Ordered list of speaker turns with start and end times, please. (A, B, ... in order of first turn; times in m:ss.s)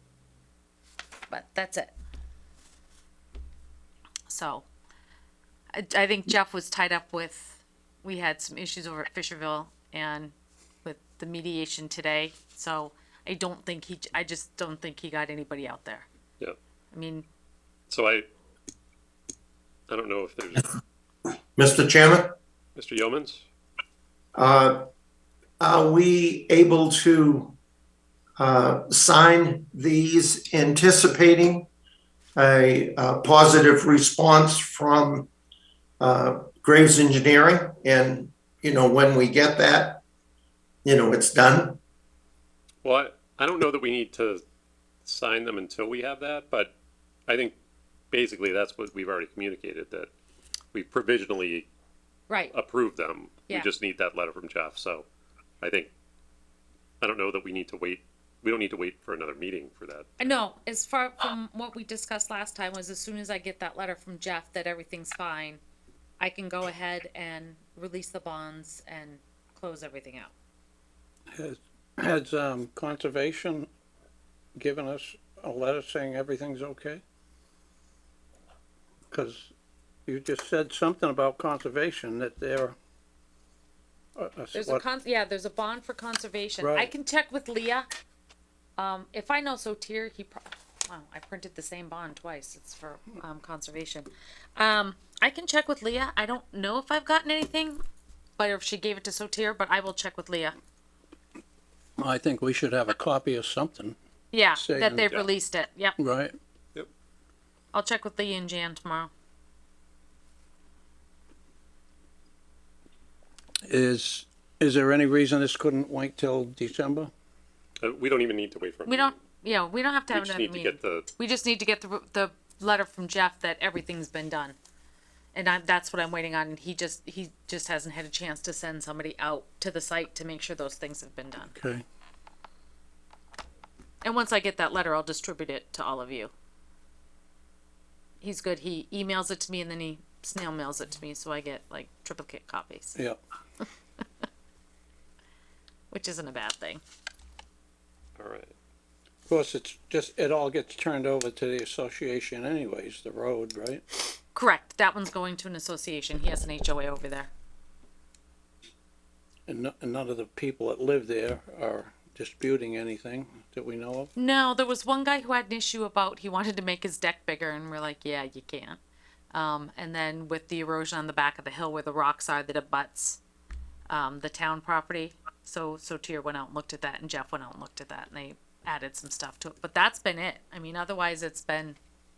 0:01.3-0:01.9 A
0:04.3-0:04.6 A
0:05.7-0:16.0 A
0:16.9-0:17.2 A
0:17.9-0:18.3 B
0:19.9-0:20.7 B
0:21.6-0:22.3 C
0:22.8-0:23.4 B
0:24.3-0:24.8 C
0:25.6-0:27.5 C
0:28.4-0:31.7 C
0:32.4-0:35.3 C
0:36.0-0:40.0 C
0:40.8-0:41.8 C
0:42.8-0:44.4 B
0:45.0-0:46.7 B
0:47.3-0:47.5 B
0:48.1-0:50.1 B
0:50.7-0:51.7 B
0:52.3-0:52.5 A
0:52.5-0:55.0 B
0:55.6-0:55.9 B
0:57.0-1:00.3 B
1:00.2-1:05.6 A
1:06.2-1:10.3 A
1:11.3-1:13.7 D
1:14.6-1:17.0 D
1:19.1-1:19.5 D
1:20.0-1:22.8 D
1:24.2-1:24.8 D
1:24.5-1:27.9 A
1:26.6-1:26.9 D
1:28.8-1:37.8 A
1:38.4-1:40.5 A
1:42.0-1:44.0 D
1:44.3-1:46.0 A
1:44.6-1:45.1 D
1:46.0-1:46.4 D
1:47.7-1:49.1 A
1:53.6-1:57.1 D
1:57.8-1:59.2 B
1:58.8-2:04.6 A
2:00.1-2:01.1 B
2:05.3-2:11.5 A
2:11.5-2:11.8 D
2:14.0-2:16.3 A
2:18.2-2:23.0 A
2:25.9-2:26.8 A
2:28.2-2:28.5 B
2:29.3-2:33.8 D
2:34.3-2:37.3 A
2:39.5-2:44.1 D
2:44.2-2:48.8 A
2:49.3-2:53.2 A
2:53.9-3:01.8 A